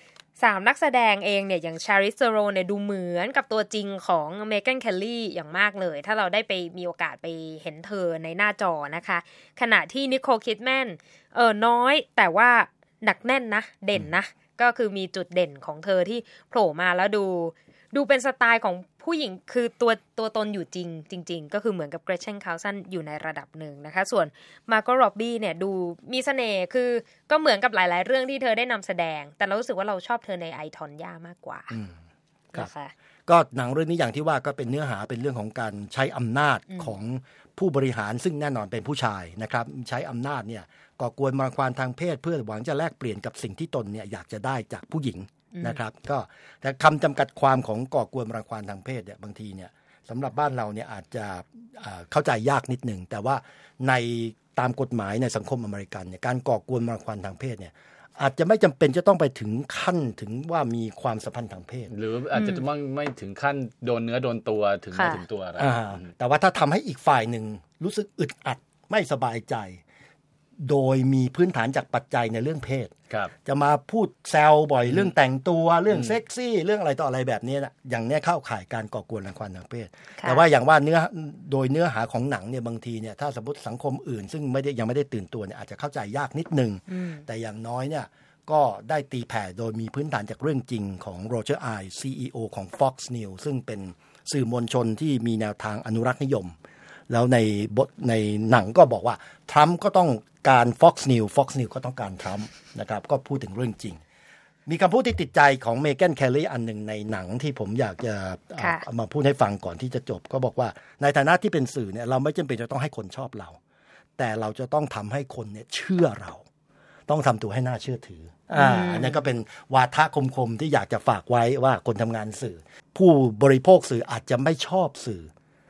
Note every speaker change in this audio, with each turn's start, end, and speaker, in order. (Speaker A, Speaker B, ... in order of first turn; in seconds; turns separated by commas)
Speaker A: 0.4-31.7, Speaker A: 32.5-32.9, Speaker B: 33.3-61.9, Speaker C: 61.9-66.1, Speaker A: 62.3-62.7, Speaker A: 64.9-65.2, Speaker B: 65.6-69.8, Speaker B: 70.6-72.9, Speaker B: 73.4-96.5, Speaker C: 74.9-75.1, Speaker C: 75.9-76.2, Speaker A: 80.2-80.5, Speaker A: 86.9-87.2, Speaker B: 97.1-104.0, Speaker B: 104.7-113.6, Speaker A: 108.6-108.8, Speaker B: 114.2-116.5, Speaker B: 117.1-125.3, Speaker A: 118.5-119.3